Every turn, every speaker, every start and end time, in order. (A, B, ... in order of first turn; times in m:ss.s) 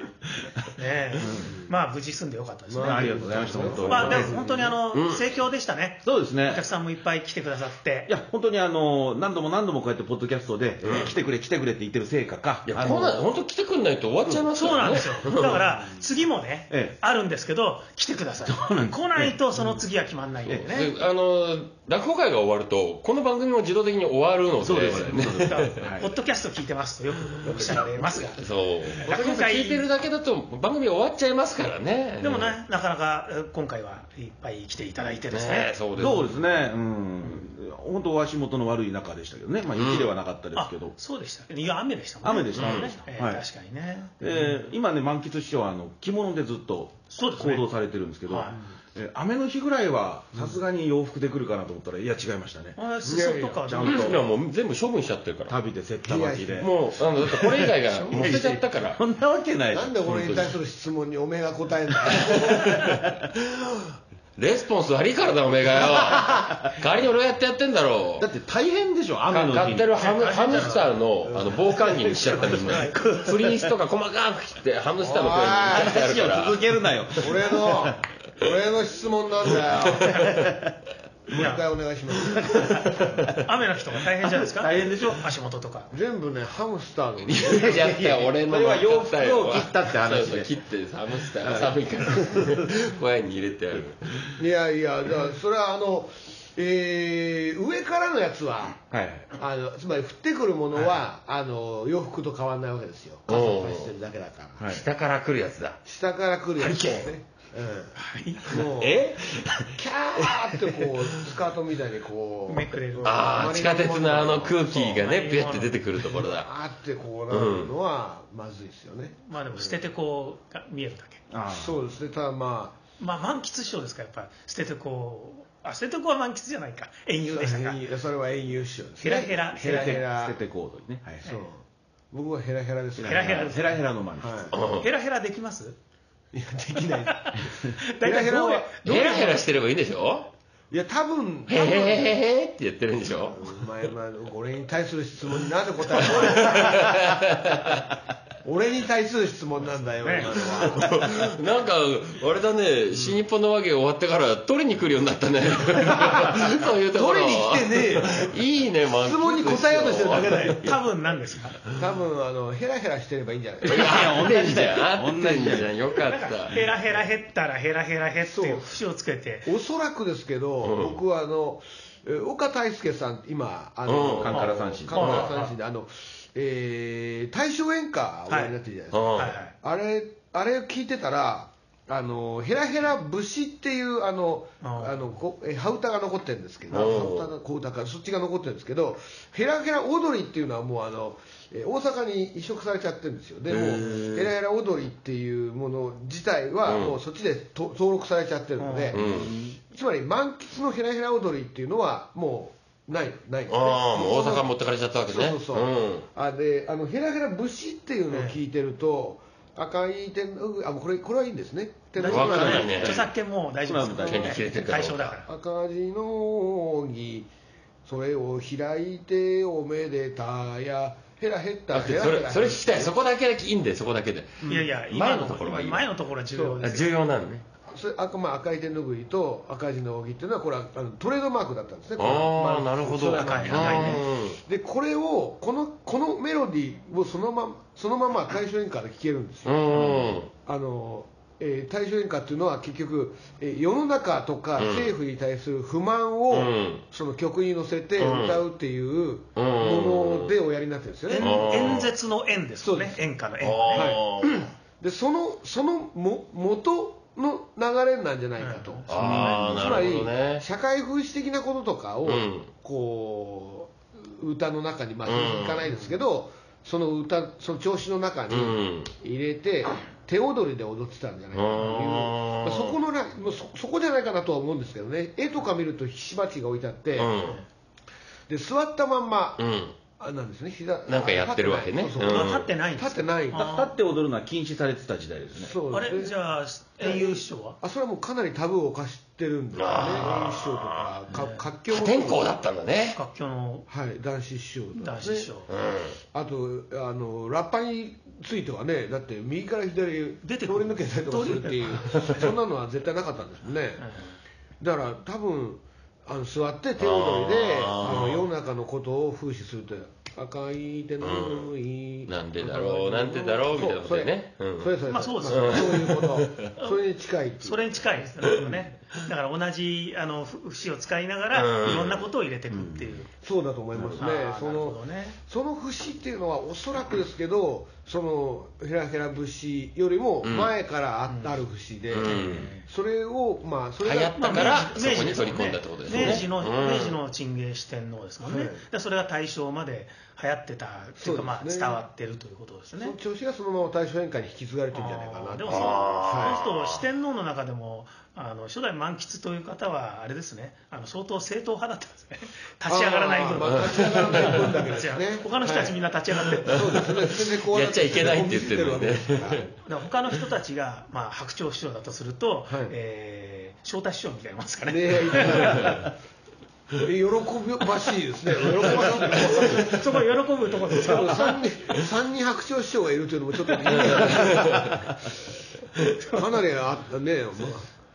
0:00.8-0:08.1 A
0:01.2-0:01.6 B
0:02.7-0:04.7 C
0:02.8-0:04.7 B
0:04.9-0:05.3 D
0:06.0-0:06.6 B
0:08.1-0:13.3 B
0:10.8-0:11.1 D
0:12.7-0:15.6 D
0:14.5-0:20.9 A
0:16.7-0:17.0 B
0:18.4-0:19.8 B
0:20.4-0:20.8 B
0:20.6-0:25.7 D
0:24.6-0:26.1 B
0:25.2-0:28.4 A
0:27.5-0:27.8 C
0:28.3-0:32.5 D
0:29.0-0:29.9 A
0:32.2-0:35.7 A
0:35.3-0:36.3 D
0:36.0-0:40.9 B
0:39.7-0:40.1 D
0:40.5-0:44.5 A
0:42.2-0:43.4 B
0:42.5-0:42.9 D
0:44.2-0:52.8 B
0:47.1-0:47.7 A
0:48.3-0:48.6 A
0:52.8-0:54.2 A
0:53.0-0:53.6 C
0:53.6-0:54.3 B
0:53.8-0:55.5 D
0:55.5-1:00.5 B
0:56.0-0:56.8 C
0:56.6-0:59.0 D
0:57.9-0:58.4 C
0:59.7-1:02.8 C
1:02.2-1:08.3 D
1:05.8-1:06.7 B
1:08.2-1:09.9 B
1:09.3-1:16.6 D
1:10.0-1:10.9 A
1:11.3-1:11.6 C
1:11.4-1:13.7 B
1:12.5-1:13.2 A
1:15.0-1:16.0 C
1:15.6-1:18.0 B
1:17.2-1:20.3 C
1:19.8-1:20.7 B
1:20.0-1:20.4 A
1:21.3-1:22.8 C
1:21.3-1:21.6 A
1:22.4-1:23.4 B
1:22.7-1:23.1 D
1:23.4-1:25.9 A
1:24.2-1:25.2 B
1:25.9-1:27.9 C
1:27.2-1:34.1 D
1:27.5-1:30.6 B
1:31.3-1:32.6 B
1:34.4-1:38.8 C
1:38.9-1:39.3 B
1:39.3-1:44.6 C
1:43.3-1:43.9 D
1:44.6-1:44.8 B
1:44.7-1:45.8 D
1:45.8-1:49.2 C
1:46.6-1:47.1 D
1:48.0-1:48.7 A
1:48.8-1:49.4 D
1:49.7-1:54.8 C
1:52.5-1:53.2 A
1:53.0-1:56.5 D
1:54.7-1:55.8 A
1:56.2-1:59.8 C
1:57.3-1:57.7 D
1:59.2-2:01.2 A
2:01.3-2:01.8 B
2:01.5-2:02.8 C
2:03.0-2:07.8 A
2:07.3-2:10.4 C
2:09.0-2:10.0 A
2:09.6-2:11.3 B
2:11.2-2:13.6 C
2:13.0-2:14.6 B
2:13.0-2:13.8 A
2:14.2-2:14.6 C
2:14.5-2:14.9 D
2:14.8-2:15.8 A
2:16.3-2:17.5 C
2:16.9-2:19.4 A
2:18.0-2:18.8 C
2:18.8-2:20.3 D
2:20.7-2:22.2 C
2:21.5-2:23.5 D
2:23.3-2:27.1 C
2:26.0-2:27.8 D
2:28.4-2:31.2 C
2:30.0-2:30.4 A
2:30.5-2:40.7 D
2:36.9-2:38.3 B
2:37.7-2:38.0 C
2:39.0-2:40.6 C
2:40.1-2:40.7 B
2:40.6-2:41.6 A
2:41.7-2:44.3 C
2:43.6-2:46.6 D
2:43.6-2:45.7 B
2:46.0-2:49.5 A
2:48.2-2:48.8 C
2:49.4-3:24.5 C
2:50.6-2:51.0 D
2:53.8-2:54.3 D
2:54.2-2:55.2 B
2:54.3-2:55.5 A
2:55.0-2:55.2 D
2:58.3-2:58.5 A
2:58.9-2:59.3 D
2:59.2-2:59.5 A
3:04.6-3:04.9 A
3:06.7-3:07.3 D
3:13.5-3:14.3 D
3:16.6-3:17.0 D
3:18.6-3:19.0 A
3:18.9-3:19.3 D
3:19.0-3:19.6 B
3:23.5-3:26.0 D
3:25.1-3:32.7 C
3:28.1-3:28.4 A
3:32.0-3:35.3 A
3:32.0-3:33.1 B
3:32.0-3:33.1 D
3:33.6-3:34.4 B
3:34.0-3:35.2 D
3:35.3-3:37.3 C
3:37.8-3:42.9 C
3:41.7-3:45.8 D
3:44.4-3:44.7 C
3:44.4-3:46.9 A
3:46.3-3:46.6 C
3:46.6-3:47.4 D
3:47.7-4:11.9 C
3:52.0-3:54.4 D
3:53.1-3:54.0 A
3:59.4-4:00.3 D
4:04.6-4:04.9 D
4:06.3-4:06.8 D
4:08.0-4:08.4 D
4:09.4-4:10.3 D
4:11.1-4:14.4 A
4:11.2-4:11.9 D
4:12.6-4:13.0 C
4:13.4-4:14.4 D
4:13.7-4:14.3 C
4:14.8-4:37.1 C
4:18.4-4:19.6 A
4:18.9-4:20.4 D
4:22.0-4:22.5 D
4:25.0-4:25.7 D
4:28.3-4:28.9 D
4:31.3-4:32.8 D
4:37.0-4:37.4 D
4:38.3-4:39.4 C
4:39.4-4:39.7 D
4:40.0-4:43.5 C
4:40.9-4:42.5 D
4:42.0-4:43.7 A
4:43.3-4:45.5 B
4:45.3-4:46.2 C
4:45.7-4:47.6 A
4:46.8-4:52.3 C
4:49.5-4:50.9 D
4:51.1-4:51.4 A
4:51.7-4:53.0 D
4:52.9-4:53.7 A
4:53.7-4:55.3 C
4:54.8-4:55.5 A
4:55.5-4:56.0 D
4:56.1-5:03.8 C
5:00.2-5:02.3 A
5:03.8-5:04.2 A
5:04.6-5:17.8 C
5:06.8-5:08.3 D
5:11.0-5:11.5 D
5:12.1-5:14.7 D
5:14.9-5:15.9 A
5:15.2-5:16.5 D
5:16.6-5:16.8 A
5:17.4-5:23.1 A
5:21.3-5:22.0 D
5:22.5-5:22.9 B
5:23.2-5:34.8 C
5:24.0-5:25.2 A
5:30.2-5:30.5 D
5:31.1-5:31.4 A
5:31.9-5:32.5 D
5:32.1-5:32.5 B
5:32.2-5:32.6 A
5:33.8-5:37.0 D
5:34.2-5:43.0 A
5:35.9-5:36.2 C
5:38.2-5:38.6 C
5:41.0-5:41.8 C
5:42.8-5:46.4 C
5:44.7-5:56.8 A
5:45.4-5:46.8 D
5:52.7-5:55.8 C
5:53.4-5:54.5 D
5:56.4-5:59.5 C
5:56.5-5:59.5 D
5:59.6-6:05.8 A
6:02.5-6:02.7 C
6:04.6-6:05.9 C
6:06.8-6:09.9 C
6:08.6-6:11.4 A
6:09.2-6:09.7 D
6:10.7-6:14.9 C
6:13.7-6:14.7 D
6:14.4-6:14.8 B
6:16.0-6:16.3 A
6:16.1-6:17.7 C